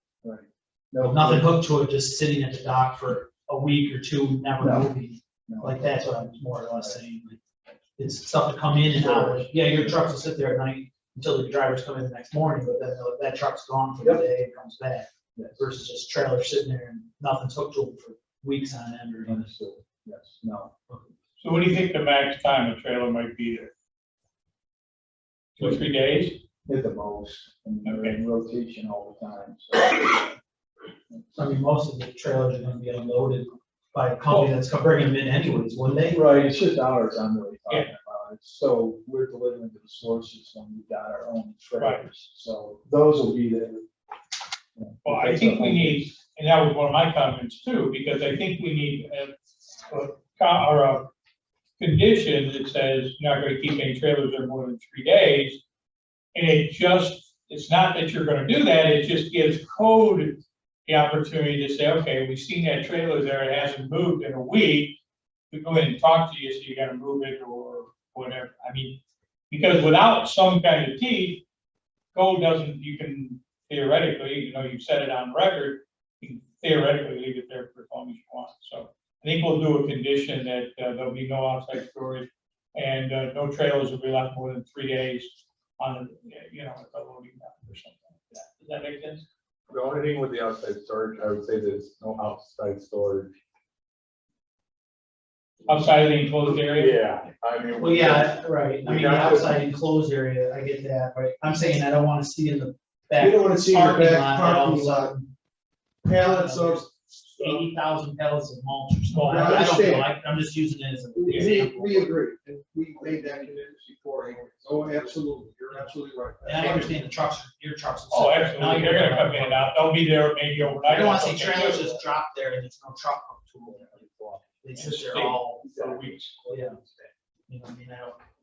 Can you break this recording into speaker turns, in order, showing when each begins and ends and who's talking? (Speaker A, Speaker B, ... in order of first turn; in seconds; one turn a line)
Speaker A: 0.2-1.5
Speaker B: 1.0-7.4
Speaker A: 4.6-4.9
Speaker A: 5.5-5.9
Speaker B: 8.0-19.5
Speaker A: 8.9-9.7
Speaker A: 15.3-15.6
Speaker A: 19.2-20.7
Speaker C: 21.4-23.7
Speaker C: 25.6-26.4
Speaker A: 26.6-30.3
Speaker C: 27.8-28.2
Speaker B: 31.3-36.2
Speaker A: 36.1-43.9
Speaker C: 41.8-42.0
Speaker A: 44.7-46.0
Speaker C: 45.0-51.1
Speaker C: 51.8-55.6
Speaker C: 56.3-65.0
Speaker C: 65.5-69.0
Speaker C: 69.5-71.4
Speaker C: 72.1-89.2
Speaker D: 89.7-93.3
Speaker C: 95.7-97.0
Speaker D: 96.5-99.6
Speaker B: 97.8-105.3
Speaker E: 103.2-105.1
Speaker E: 106.0-107.6
Speaker B: 106.1-112.1
Speaker C: 109.1-109.7
Speaker E: 109.3-110.1
Speaker E: 111.2-117.0
Speaker C: 111.3-111.5
Speaker A: 113.1-113.5
Speaker A: 114.4-115.1
Speaker B: 115.7-119.8
Speaker C: 118.1-122.0
Speaker B: 120.7-126.8
Speaker C: 124.7-125.4
Speaker A: 125.7-127.0
Speaker B: 127.5-128.2